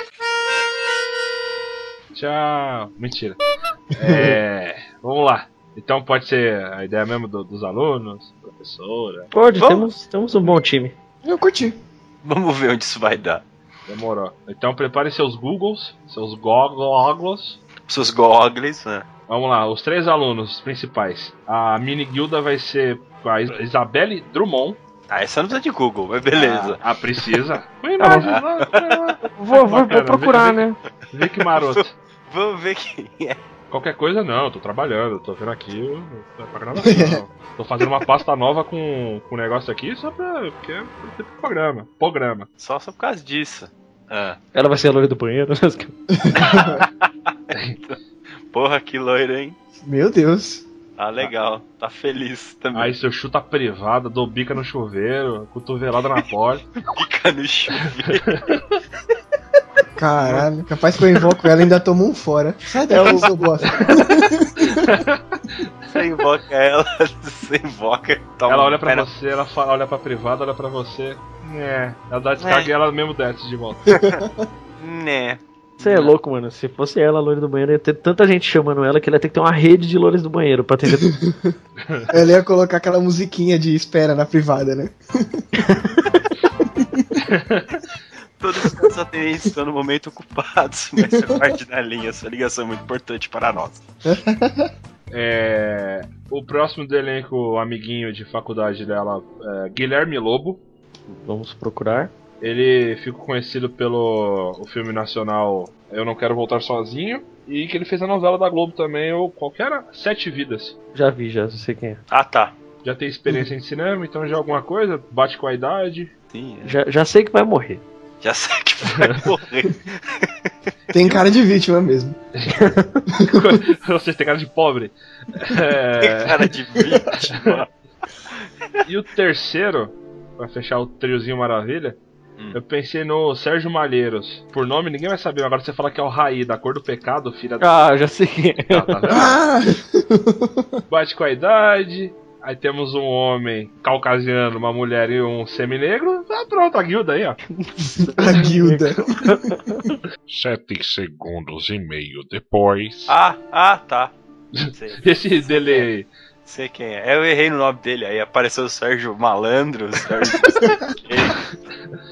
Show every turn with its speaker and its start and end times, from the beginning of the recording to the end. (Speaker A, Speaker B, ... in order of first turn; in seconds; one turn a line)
Speaker A: 2.1-3.4
Speaker A: 4.0-9.3
Speaker B: 4.0-4.4
Speaker C: 9.3-10.9
Speaker D: 9.6-9.9
Speaker B: 11.2-11.8
Speaker D: 12.2-13.4
Speaker A: 13.9-17.6
Speaker D: 17.9-19.1
Speaker A: 19.3-24.8
Speaker D: 25.1-26.8
Speaker A: 26.4-31.9
Speaker C: 28.0-28.3
Speaker D: 28.2-29.0
Speaker C: 29.2-30.8
Speaker D: 31.4-33.4
Speaker A: 33.7-42.5
Speaker B: 36.8-37.2
Speaker D: 42.6-44.4
Speaker C: 44.5-46.0
Speaker B: 46.2-46.9
Speaker D: 46.3-48.0
Speaker D: 48.5-49.6
Speaker B: 49.8-50.7
Speaker D: 51.0-53.0
Speaker A: 52.7-56.6
Speaker D: 56.8-58.4
Speaker B: 60.0-64.8
Speaker A: 60.2-60.5
Speaker A: 63.7-65.7
Speaker D: 65.9-69.1
Speaker A: 68.5-73.9
Speaker D: 72.4-72.7
Speaker D: 73.9-74.2
Speaker B: 73.9-74.5
Speaker D: 74.8-76.1
Speaker C: 75.8-81.1
Speaker B: 80.9-81.5
Speaker A: 81.8-82.1
Speaker B: 82.1-85.5
Speaker B: 86.8-87.1
Speaker A: 87.2-87.8
Speaker D: 88.4-93.8
Speaker B: 91.1-91.5
Speaker B: 94.0-94.7
Speaker A: 95.1-100.6
Speaker C: 101.1-102.1
Speaker A: 102.4-110.8
Speaker C: 110.9-112.0
Speaker D: 112.1-112.5
Speaker A: 112.8-116.1
Speaker D: 116.3-116.8
Speaker C: 116.7-117.8
Speaker D: 118.2-120.5
Speaker B: 120.9-122.2
Speaker A: 122.4-126.4
Speaker B: 123.1-123.4
Speaker D: 126.0-127.7
Speaker A: 127.1-127.5
Speaker A: 128.8-132.0
Speaker A: 132.5-137.7
Speaker C: 137.6-139.2
Speaker A: 138.7-139.4
Speaker B: 139.1-140.7
Speaker A: 140.9-147.4
Speaker C: 147.6-150.0
Speaker B: 147.9-149.4
Speaker E: 150.3-153.2
Speaker D: 153.1-154.1
Speaker D: 154.7-155.9
Speaker A: 155.0-156.1
Speaker D: 156.5-161.5